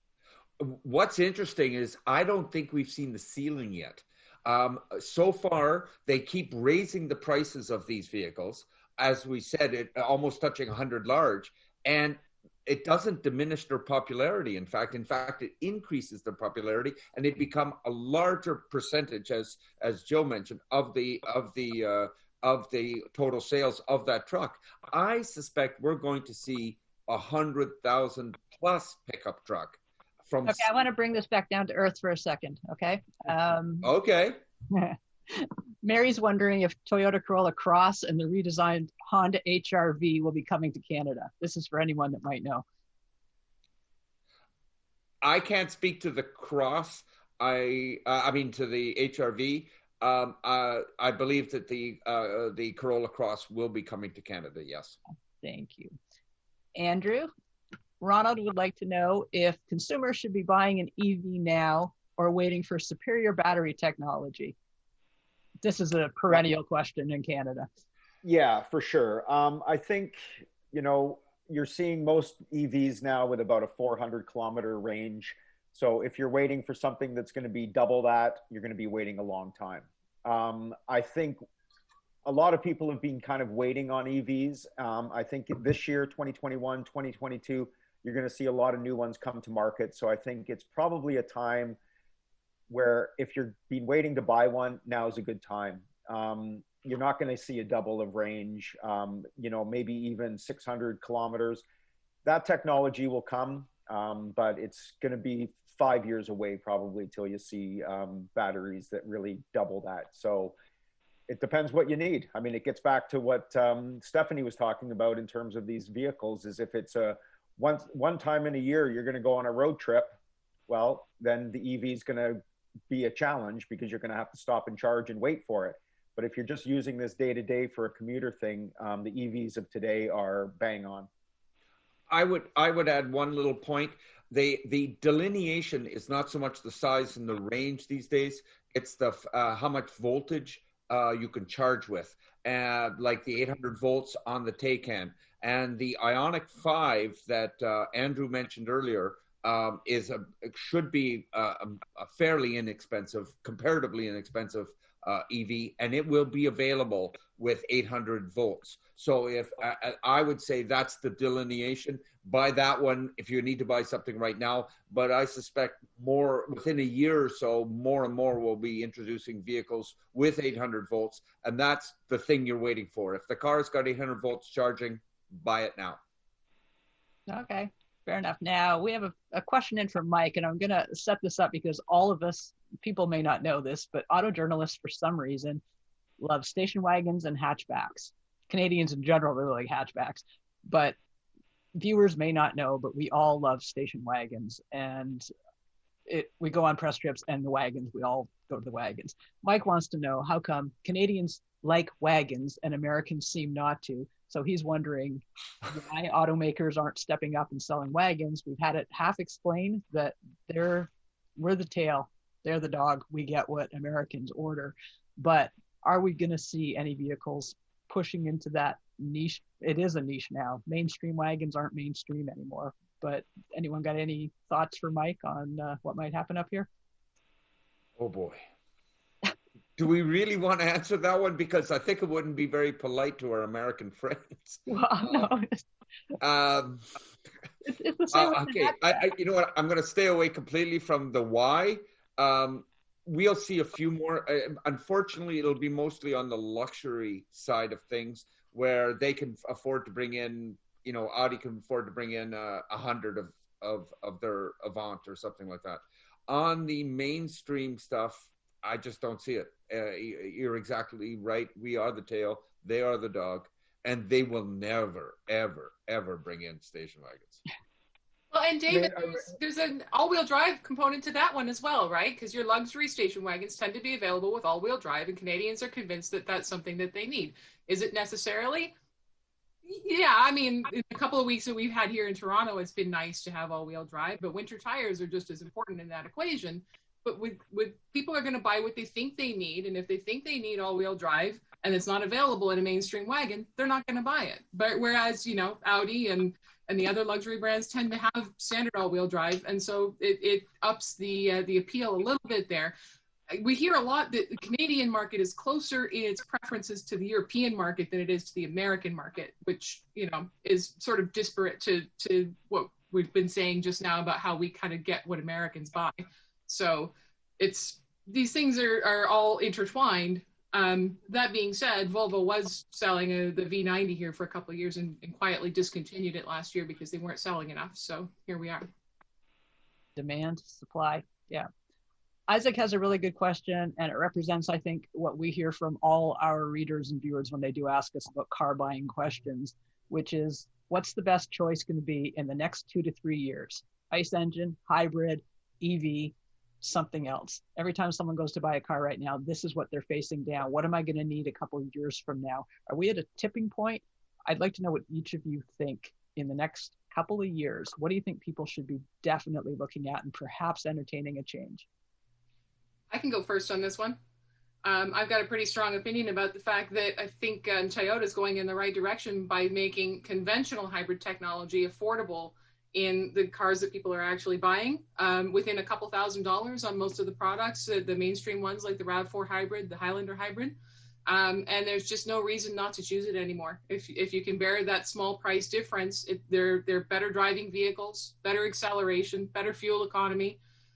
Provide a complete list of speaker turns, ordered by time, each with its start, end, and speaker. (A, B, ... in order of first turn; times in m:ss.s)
0:00.6-0:30.7 A
0:30.4-0:33.9 B
0:33.8-0:34.4 A
0:34.7-0:42.6 B
0:45.2-0:55.0 A
0:55.4-0:55.9 B
0:56.8-0:57.3 B
0:58.0-1:04.5 B
1:05.6-1:07.7 B
1:08.2-1:21.4 C
1:22.2-1:31.8 C
1:32.7-1:41.6 C
1:42.2-1:50.5 C
1:51.3-2:00.1 C
2:00.7-2:02.4 C
2:02.9-2:11.1 C
2:12.1-2:56.0 A
2:57.3-3:05.6 B
3:06.2-3:10.9 B
3:11.7-3:15.3 B
3:16.1-3:46.7 B
3:48.0-3:48.4 A
3:49.8-3:55.3 A
3:54.7-3:55.6 B
3:56.2-3:56.8 A
3:57.6-3:58.9 B
3:58.1-4:27.4 A
4:28.3-4:38.7 D
4:39.6-5:02.7 D
5:03.3-5:28.7 D
5:30.0-5:31.5 B
5:32.3-6:01.6 B
6:02.9-6:04.0 D
6:04.6-6:20.5 D
6:21.0-6:30.4 D